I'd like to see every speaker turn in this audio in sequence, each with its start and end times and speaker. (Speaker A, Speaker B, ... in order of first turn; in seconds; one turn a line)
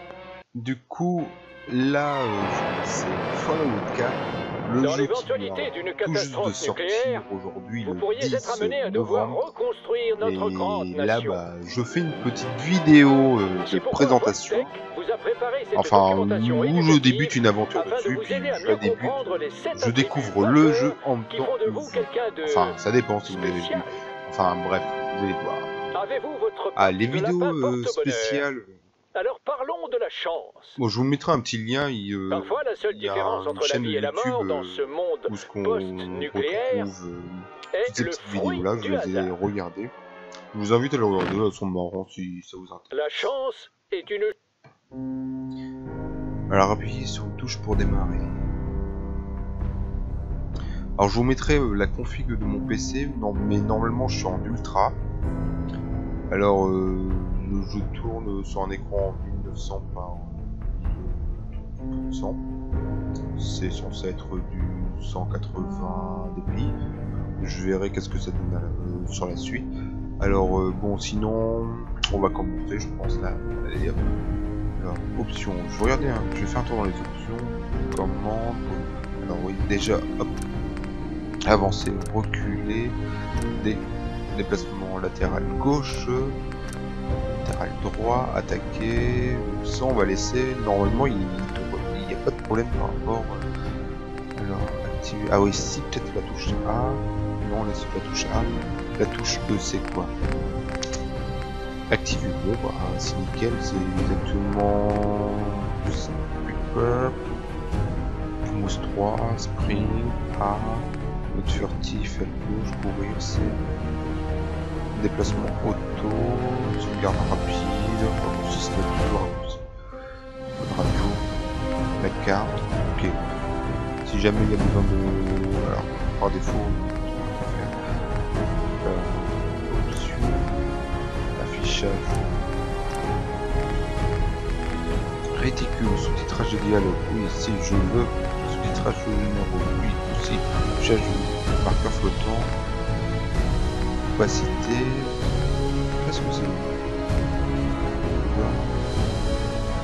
Speaker A: 0.5-9.4
Speaker B: 4.8-7.2
Speaker B: 7.8-11.4
Speaker A: 10.2-14.7
Speaker B: 13.6-22.7
Speaker A: 15.7-25.7
Speaker B: 23.3-24.0
Speaker B: 25.9-28.4
Speaker A: 26.8-28.8
Speaker B: 29.1-30.8
Speaker A: 30.8-39.9
Speaker B: 32.3-36.9
Speaker B: 37.7-39.3
Speaker A: 40.5-42.9
Speaker B: 42.9-44.3
Speaker A: 46.5-48.4
Speaker A: 51.0-55.0
Speaker A: 56.3-62.4
Speaker A: 63.3-66.8
Speaker A: 67.4-74.0
Speaker A: 74.8-80.4
Speaker A: 81.5-83.0
Speaker A: 83.5-86.4
Speaker A: 87.3-93.5
Speaker A: 94.3-100.1
Speaker A: 101.9-107.2
Speaker A: 108.4-113.6
Speaker A: 114.9-119.7
Speaker A: 120.5-121.3
Speaker A: 122.0-123.3
Speaker A: 124.0-127.7
Speaker A: 128.8-130.6
Speaker A: 131.3-132.6
Speaker A: 135.3-142.6
Speaker A: 144.1-145.3
Speaker A: 146.0-146.8
Speaker A: 148.0-148.8